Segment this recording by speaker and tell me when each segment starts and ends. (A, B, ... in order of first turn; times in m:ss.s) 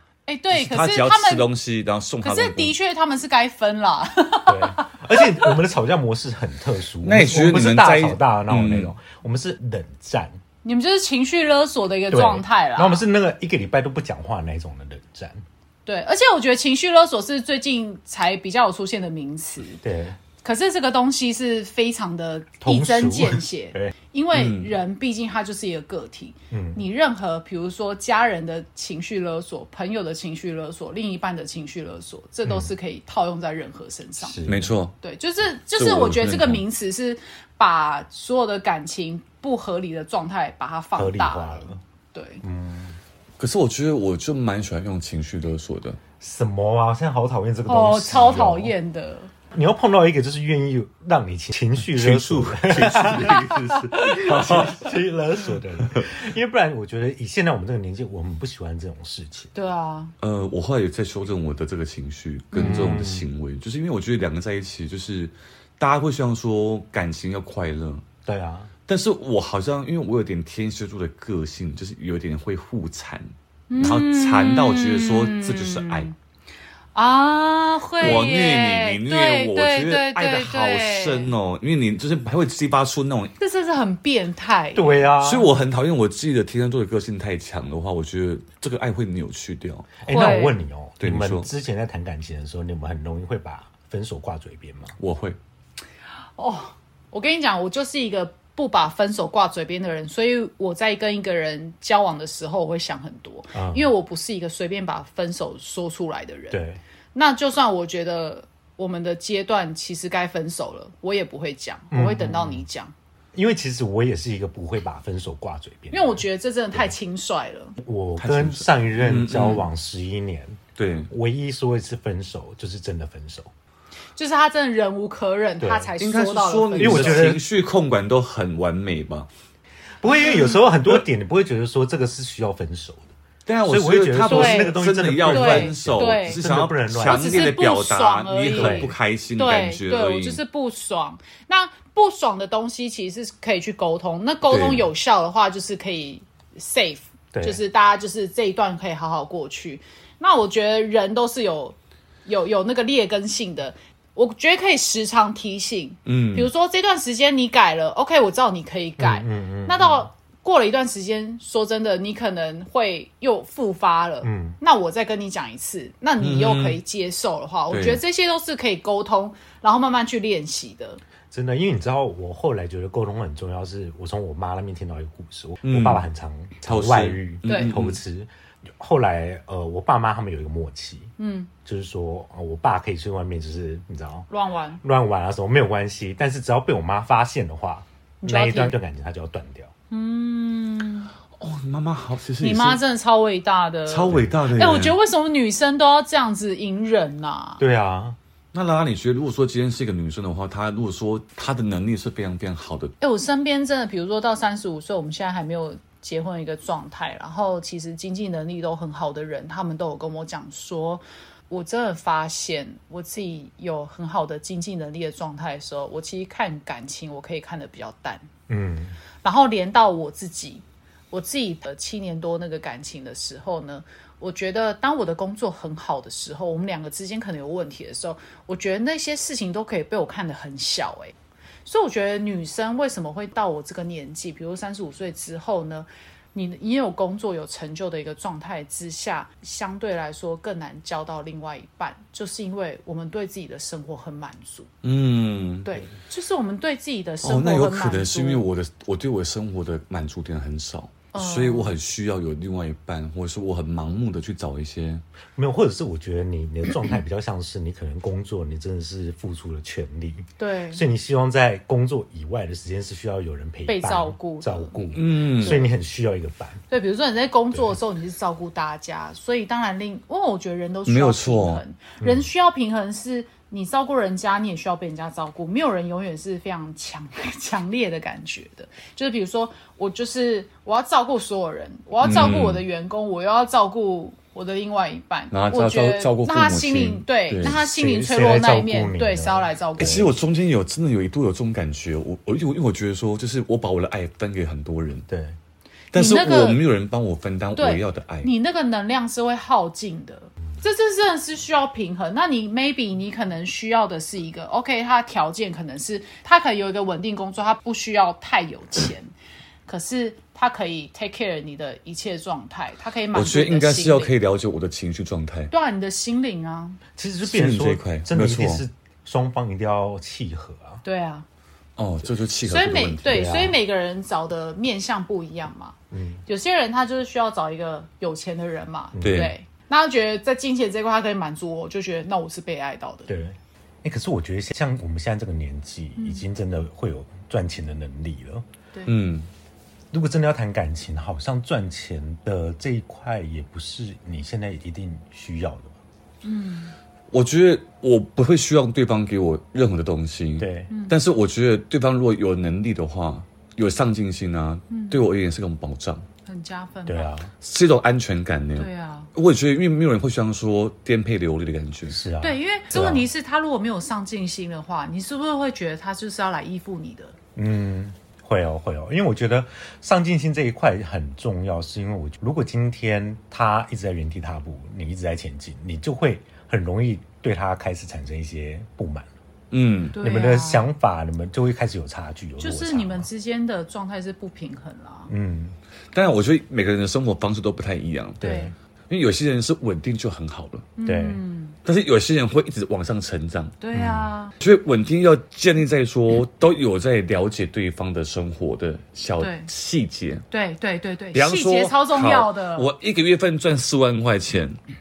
0:00.3-0:01.5 A
0:00.5-0:02.8 B
0:02.2-0:05.0 A
0:04.5-0:10.4 C
0:07.0-0:08.9 B
0:10.6-0:13.0 A
0:12.1-0:15.4 C
0:15.8-0:19.8 A
0:19.8-0:20.2 C
0:20.4-0:34.4 A
0:22.6-0:23.9 C
0:24.3-0:24.7 B
0:26.5-0:26.8 C
0:32.5-0:32.7 C
0:34.2-0:34.8 C
0:34.5-0:35.0 B
0:35.0-0:42.4 A
0:35.7-0:36.6 B
0:41.0-0:41.8 C
0:42.4-0:43.0 C
0:43.4-0:46.0 B
0:46.2-0:48.8 C
0:47.7-0:49.3 A
0:49.5-0:59.5 C
0:51.8-0:55.0 B
0:55.8-0:56.1 B
0:59.5-1:00.1 A
1:00.2-1:08.0 B
1:02.5-1:03.0 A
1:02.6-1:03.3 C
1:08.3-1:08.7 C
1:08.9-1:13.3 B
1:13.7-1:16.1 A
1:13.8-1:16.1 B
1:17.0-1:21.3 A
1:18.0-1:23.3 B
1:23.4-1:25.1 A
1:24.8-1:25.5 C
1:25.2-1:30.0 B
1:30.0-1:35.0 C
1:30.1-1:30.6 A
1:31.0-1:31.5 B
1:35.0-1:35.4 B
1:36.4-1:46.6 A
1:43.5-1:43.9 C
1:46.5-1:46.8 C
1:47.1-1:52.9 A
1:51.9-1:52.6 C
1:53.3-1:56.2 C
1:55.9-1:57.8 A
1:57.8-2:03.5 C
1:58.2-1:59.6 B
2:00.8-2:01.1 B
2:04.2-2:07.3 A
2:05.6-2:05.9 C
2:06.0-2:09.3 B
2:06.8-2:07.4 C
2:10.0-2:13.1 C
2:13.5-2:20.4 B
2:13.6-2:17.5 C
2:14.3-2:16.4 A
2:17.0-2:51.0 A
2:18.6-2:18.9 C
2:24.5-2:24.9 B
2:27.3-2:27.6 C
2:36.1-2:36.5 B
2:39.0-2:40.1 C
2:44.2-2:44.6 C
2:46.2-2:46.8 B
2:47.7-2:48.0 B
2:51.3-3:01.1 C
2:55.6-2:56.0 B
2:56.6-2:58.0 B
2:57.5-2:57.8 A
3:01.2-3:01.5 A
3:01.6-3:04.3 C
3:04.3-3:04.8 A
3:04.8-3:09.7 C
3:08.2-3:08.8 A
3:09.9-3:11.1 A
3:11.4-3:12.8 B
3:12.4-3:17.6 A
3:13.9-3:15.0 B
3:17.6-3:18.2 C
3:18.5-3:22.9 B
3:23.0-3:38.3 A
3:38.5-3:39.0 C
3:39.2-3:51.1 A
3:51.7-4:04.7 A
4:04.8-4:05.8 B
4:05.6-4:08.5 A
4:07.2-4:15.0 B
4:11.1-4:11.8 A
4:15.4-4:26.6 C
4:20.4-4:20.8 A
4:23.7-4:24.8 A
4:24.9-4:25.6 B
4:25.4-4:25.7 A
4:26.7-4:50.1 A
4:30.9-4:31.6 B
4:32.0-4:32.3 C
4:42.0-4:42.6 B
4:42.1-4:42.3 C
4:45.3-4:47.6 B
4:47.4-4:50.1 C
4:49.8-4:55.0 B
4:55.1-4:55.4 C
4:55.9-4:58.3 B
4:55.9-4:56.6 A
4:57.6-5:09.1 A
5:09.7-5:14.2 A
5:13.1-5:15.5 B
5:15.5-5:16.8 A
5:17.0-5:20.8 C
5:17.2-5:18.6 B
5:20.8-5:21.2 A
5:21.8-5:23.3 B
5:22.4-5:33.1 A
5:23.0-5:23.6 C
5:25.9-5:26.2 C
5:28.9-5:29.3 C
5:29.0-5:29.3 B
5:33.1-5:38.4 C
5:36.0-5:36.2 A
5:38.8-5:39.3 B
5:39.9-5:45.7 C
5:46.2-5:46.7 A
5:47.1-5:56.0 B
5:50.4-5:50.7 C
5:50.7-5:51.0 A
5:54.7-5:55.0 A
5:56.2-5:57.1 A
5:56.9-5:57.3 C
5:57.4-6:02.0 B
5:58.6-5:59.1 A
6:01.9-6:03.1 C
6:02.2-6:07.2 A
6:07.4-6:19.1 C
6:19.5-6:20.0 B
6:19.9-6:20.7 A
6:20.0-6:23.1 C
6:22.4-6:25.1 A
6:25.1-6:25.6 C
6:25.9-6:28.2 B
6:28.2-6:28.5 C
6:28.2-6:28.5 A
6:28.9-6:30.7 B
6:30.8-6:31.6 A
6:30.8-6:31.2 C
6:31.6-6:33.6 B
6:33.6-6:34.3 A
6:33.7-6:34.1 C
6:34.4-6:40.2 B
6:39.2-6:39.5 A
6:40.3-6:42.7 A
6:41.1-6:44.6 B